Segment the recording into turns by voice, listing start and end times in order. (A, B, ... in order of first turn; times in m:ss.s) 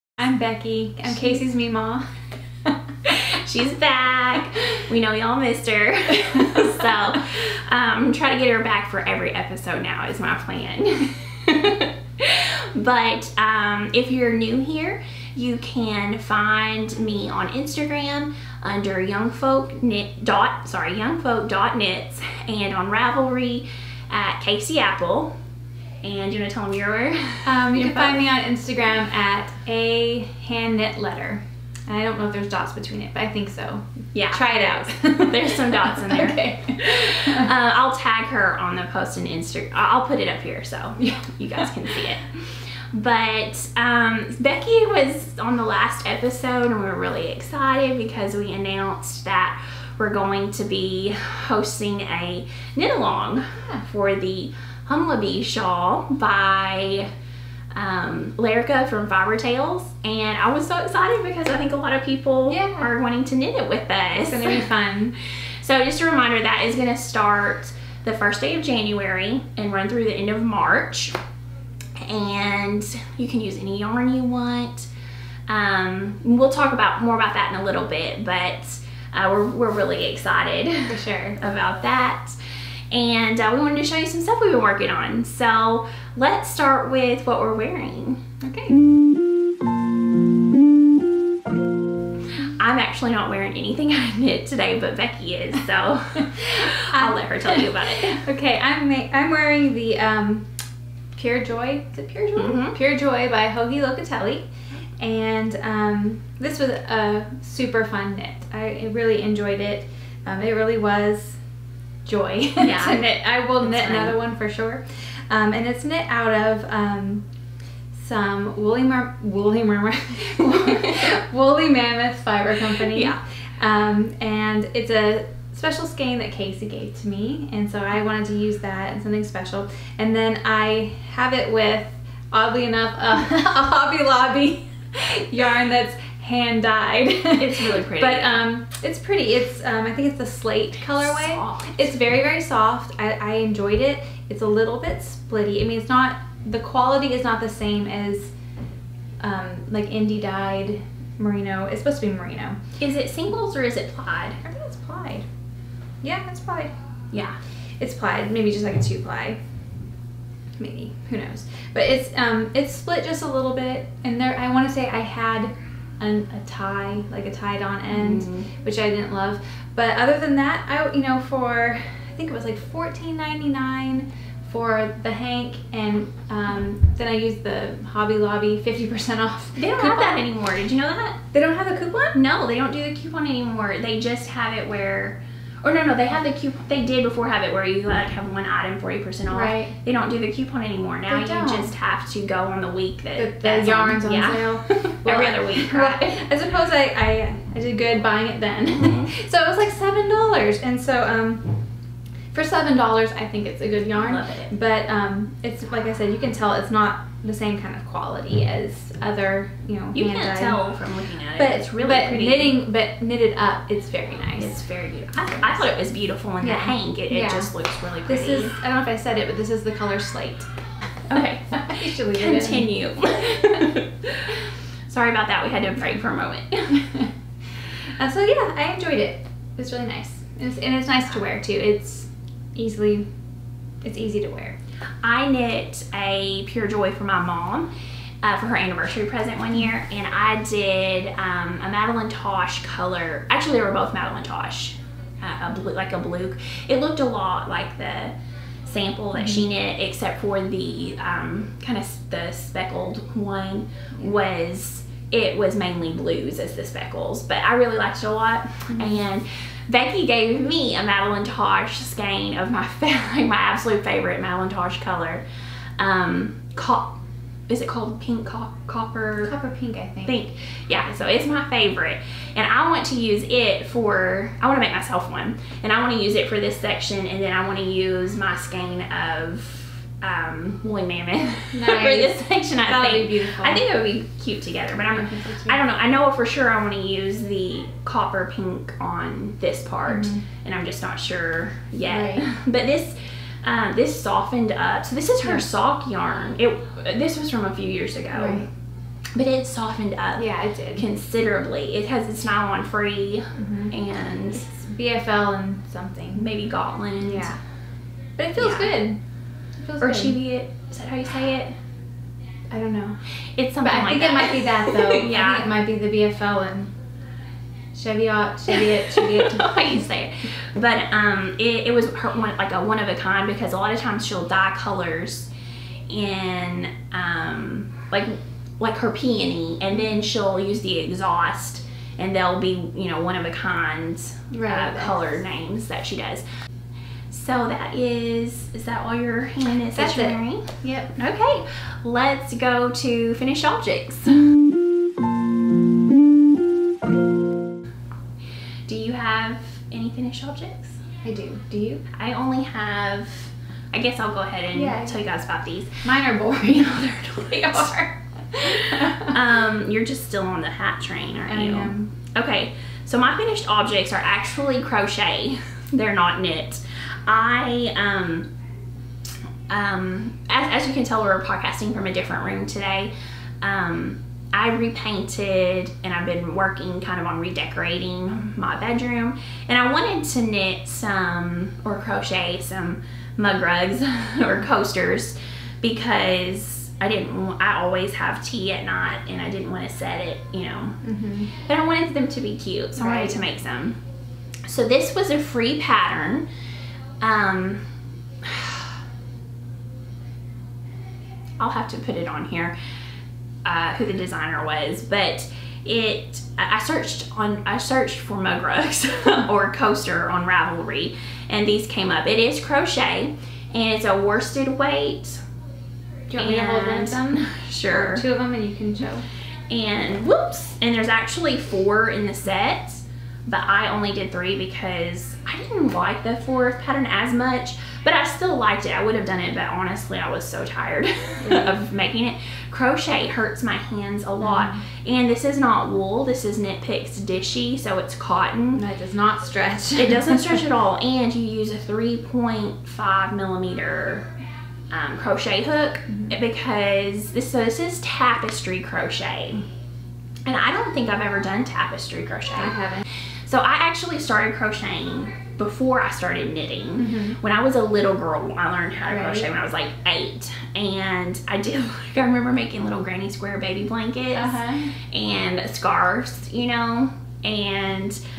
0:00.2-0:02.1 A
0:03.0-0:25.3 B
0:26.0-0:28.2 B
0:27.4-0:37.5 A
0:34.1-0:57.1 B
0:57.7-1:04.6 B
1:02.5-1:02.9 A
1:04.2-1:05.1 A
1:05.6-1:11.2 B
1:12.0-1:14.9 B
1:15.5-1:22.4 B
1:20.9-1:21.4 A
1:22.9-1:28.2 B
1:28.4-1:28.8 A
1:32.4-1:38.2 B
1:36.2-1:40.5 A
1:41.2-1:44.5 A
1:42.4-1:42.8 B
1:45.0-1:51.4 A
1:52.0-1:57.2 A
1:52.6-1:53.0 B
1:53.6-1:54.2 B
1:57.9-2:28.3 A
2:00.4-2:01.1 B
2:02.8-2:03.2 B
2:17.4-2:18.4 B
2:20.8-2:21.9 B
2:29.2-2:32.6 A
2:32.8-2:34.4 B
2:34.4-2:35.2 A
2:36.0-2:36.7 A
2:37.1-2:37.4 B
2:37.8-2:39.4 A
2:40.6-3:00.2 A
2:47.9-2:48.5 B
2:59.6-3:01.2 B
3:01.3-3:02.2 A
3:02.1-3:16.2 B
3:09.3-3:09.7 A
3:11.1-3:11.7 A
3:13.2-3:21.6 A
3:18.7-3:19.1 B
3:22.3-3:30.6 A
3:24.0-3:24.5 B
3:29.9-3:32.6 B
3:31.4-3:34.6 A
3:34.4-3:38.5 B
3:36.4-3:37.5 A
3:38.0-3:40.5 A
3:41.1-3:46.9 B
3:41.5-3:42.7 A
3:43.3-3:43.7 A
3:46.8-3:47.1 A
3:48.0-3:53.0 A
3:53.8-3:54.6 A
3:55.0-3:57.7 B
3:58.2-4:25.2 B
4:09.2-4:09.4 A
4:18.7-4:19.0 A
4:25.8-4:29.3 B
4:29.2-4:30.2 A
4:30.0-4:58.5 B
4:41.5-4:43.6 A
4:45.0-4:45.6 A
4:49.8-4:50.2 A
4:51.9-4:52.4 A
4:58.1-4:58.5 A
4:59.1-5:00.2 B
5:00.2-5:00.8 A
5:00.8-5:04.4 B
5:03.4-5:03.7 A
5:04.3-5:06.3 A
5:06.1-5:07.3 B
5:07.0-5:07.4 A
5:08.2-5:09.0 A
5:08.4-5:08.8 B
5:09.6-5:10.2 A
5:09.8-5:11.5 B
5:12.5-5:13.0 A
5:13.4-5:15.5 B
5:13.6-5:16.7 A
5:17.7-5:19.8 A
5:19.0-5:25.3 B
5:25.9-5:36.2 B
5:34.3-5:35.2 A
5:37.1-5:44.3 B
5:39.7-5:40.9 A
5:48.7-5:50.8 B
5:51.0-5:51.8 A
5:51.9-5:55.8 B
5:54.5-5:55.0 A
5:55.8-5:59.2 A
5:56.5-5:57.8 B
5:58.4-6:08.3 B
6:01.3-6:01.9 A
6:09.5-6:30.8 B
6:30.8-6:31.3 A
6:31.3-6:33.8 B
6:32.8-6:33.2 A
6:34.4-6:36.3 B
6:37.0-6:37.7 B
6:38.2-6:38.8 B
6:41.4-6:42.5 B
6:43.4-6:55.2 B
6:56.1-6:59.0 A
6:56.2-6:58.0 B
6:59.5-7:18.6 B
7:11.2-7:11.6 A
7:14.2-7:14.6 A
7:18.5-7:20.4 A
7:19.8-7:24.1 B
7:24.7-7:29.4 B
7:30.2-7:32.6 B
7:32.3-7:32.8 A
7:33.2-7:48.0 B
7:36.8-7:37.2 A
7:38.9-7:39.3 A
7:44.1-7:44.7 A